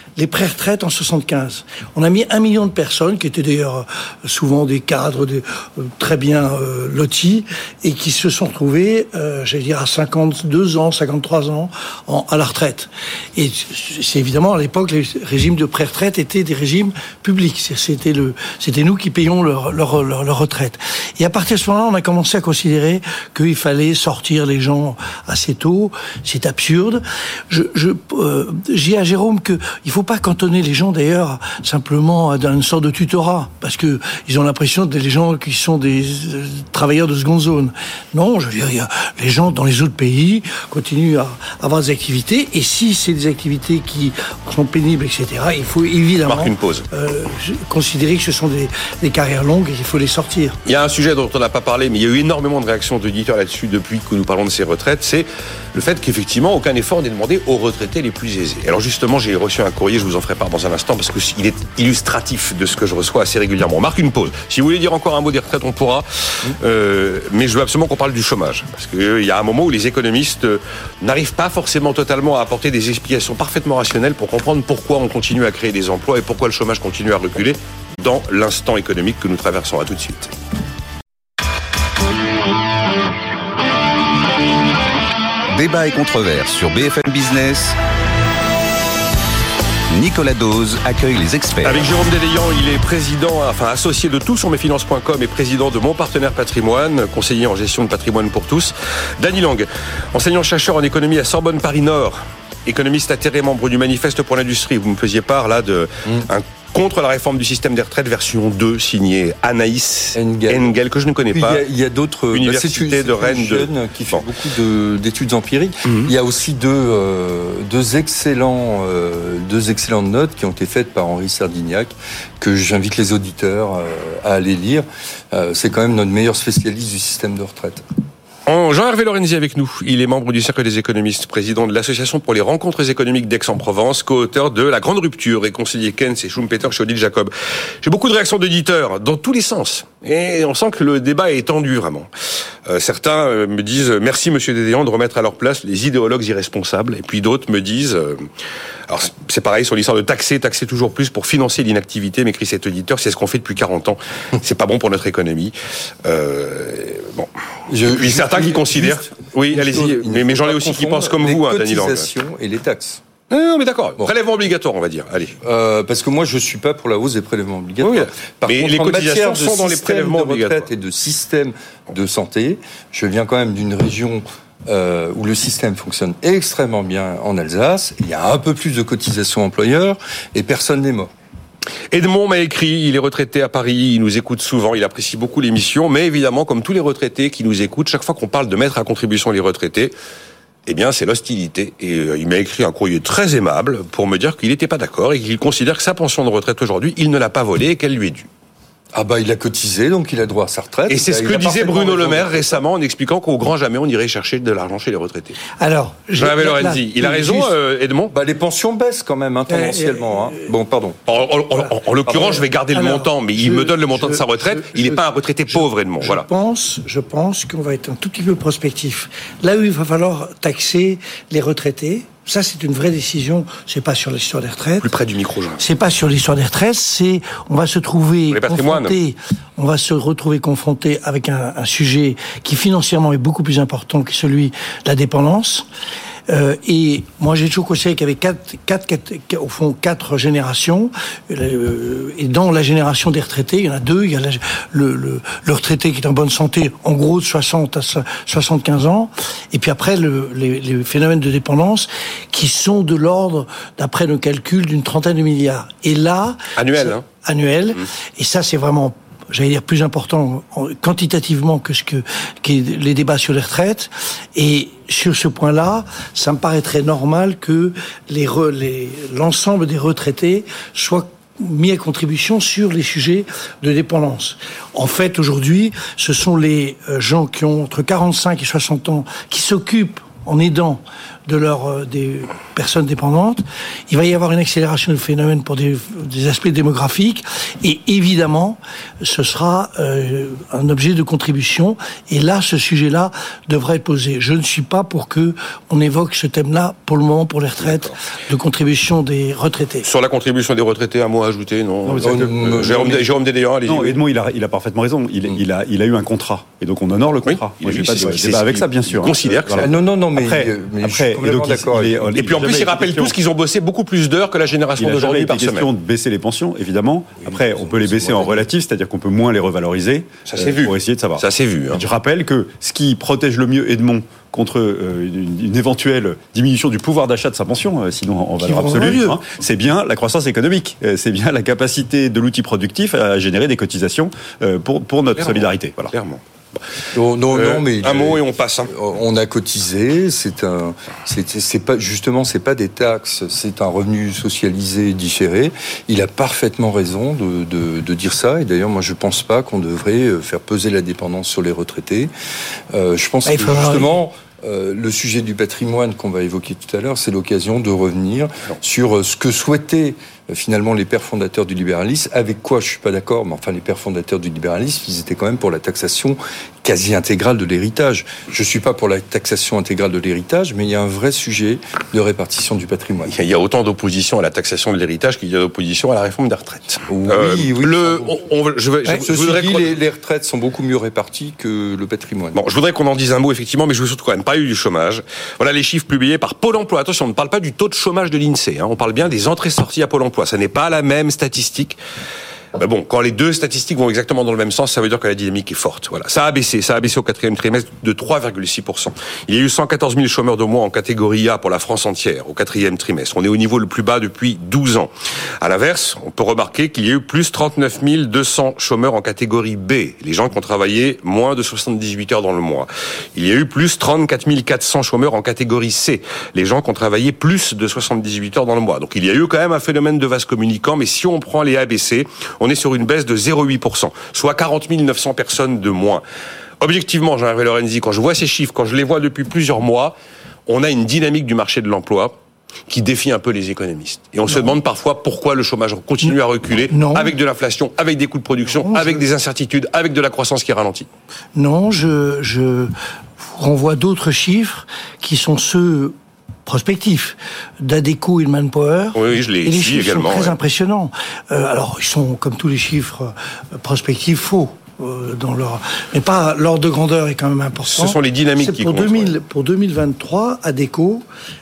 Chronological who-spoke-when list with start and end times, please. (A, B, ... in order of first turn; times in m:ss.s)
0:00.2-0:50.6 A
0:46.3-0:46.9 B
0:50.6-1:20.3 B
1:25.5-1:27.8 C
1:29.9-1:31.9 C
1:31.6-1:51.6 B
1:50.2-1:50.8 D
1:51.3-2:07.8 D
1:52.3-1:54.2 B
2:08.5-2:22.1 B
2:22.7-2:28.3 B
2:28.9-2:37.3 B
2:37.7-2:43.0 D
2:37.9-2:42.1 B
2:43.3-2:45.4 B
2:45.4-3:01.1 D
2:47.8-2:50.7 B
3:01.9-3:09.9 B
3:10.7-3:18.3 B
3:19.0-3:22.6 D
3:20.9-3:25.4 B
3:25.6-3:27.5 A
3:26.2-3:28.2 B
3:28.1-3:31.0 D
3:29.5-3:30.5 A
3:31.1-3:36.2 B
3:32.1-3:32.4 D
3:32.7-3:44.9 A
3:44.8-3:45.6 B
3:45.6-3:55.7 A
3:48.3-3:49.0 B
3:56.3-4:59.9 A
4:16.6-4:17.0 B
4:59.8-5:04.0 B
5:01.9-5:02.5 E
5:02.0-5:03.1 D
5:03.7-5:13.1 E
5:07.2-5:09.7 B
5:09.6-5:12.2 D
5:12.2-5:15.7 B
5:14.8-5:35.9 E
5:17.3-5:18.5 D
5:20.3-5:21.8 B
5:28.4-5:29.2 A
5:35.2-5:36.2 B
5:36.9-5:52.1 D
5:37.3-5:38.7 B
5:52.7-6:13.2 D
5:53.3-5:53.9 A
6:13.1-6:19.8 B
6:16.9-6:18.2 D
6:19.0-6:22.4 D
6:22.3-6:31.8 B
6:32.6-7:06.0 B
7:06.6-7:09.9 B
7:10.5-7:12.2 B
7:12.7-7:20.9 B
7:14.3-7:14.6 A
7:16.7-7:17.1 A
7:18.5-7:19.0 A
7:21.4-7:25.9 A
7:26.5-7:41.0 A
7:29.0-7:30.4 B
7:37.7-7:39.1 B